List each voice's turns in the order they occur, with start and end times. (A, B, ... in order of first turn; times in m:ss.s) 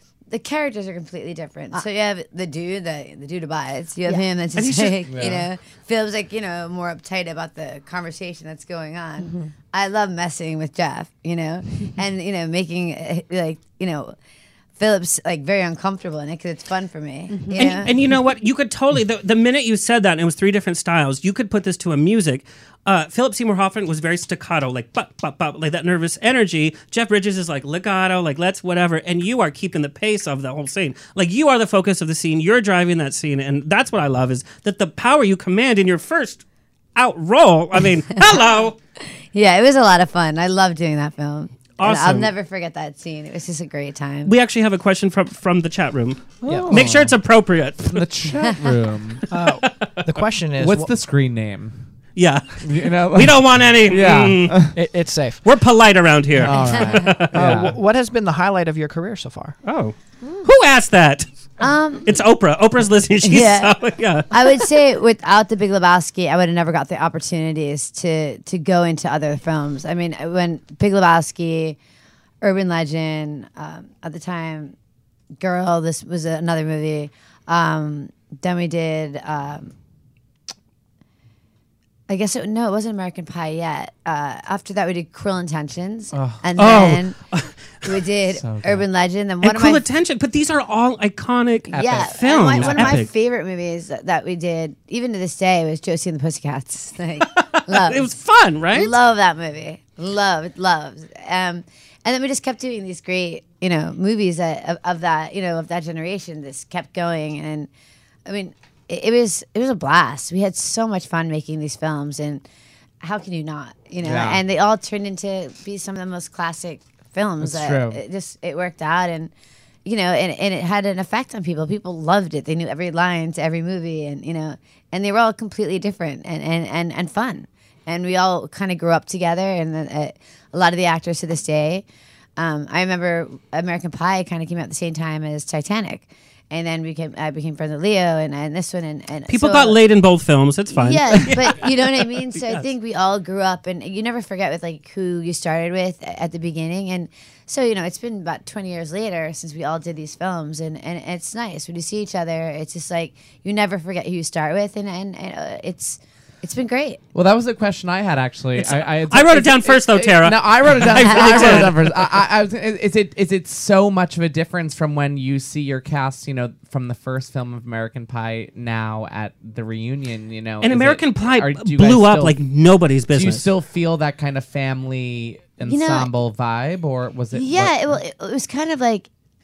0:00.3-0:14.1 A
0:04.5-0:05.0 B
0:05.1-0:05.5 C
0:14.8-0:17.9 A
0:17.6-0:36.4 B
0:37.0-0:38.7 B
0:39.3-0:44.3 A
0:41.8-0:42.3 B
0:44.2-0:48.0 B
0:46.4-0:47.2 C
0:47.8-0:49.2 C
0:49.3-0:50.9 D
0:50.6-0:51.8 C
0:52.2-0:54.7 B
0:52.6-0:54.8 C
0:54.7-0:55.4 D
0:55.4-0:57.3 B
0:56.4-0:57.8 C
0:57.3-0:59.6 D
0:59.6-1:01.2 B
1:01.6-1:02.1 A
1:02.0-1:04.4 B
1:03.2-1:03.7 A
1:04.3-1:11.8 A
1:12.4-1:14.7 A
1:15.4-1:19.7 A
1:22.1-1:27.2 A
1:26.1-1:26.4 C
1:26.6-1:27.5 B
1:27.8-1:29.8 A
1:28.4-1:28.8 C
1:29.4-1:33.1 B
1:31.7-1:33.0 C
1:31.7-1:38.1 A
1:37.6-1:38.9 B
1:38.7-1:47.7 A
1:48.2-1:52.4 A
1:53.0-1:59.3 A
1:54.0-1:54.4 C
1:57.4-1:58.0 C
1:59.8-2:11.8 A
2:12.4-2:19.8 A
2:19.3-2:22.6 B
2:20.7-2:37.0 A
2:37.1-2:52.4 C
2:38.6-2:41.9 B
2:50.6-2:53.5 B
2:53.1-2:57.9 C
2:55.6-2:56.1 A
2:57.3-2:59.1 A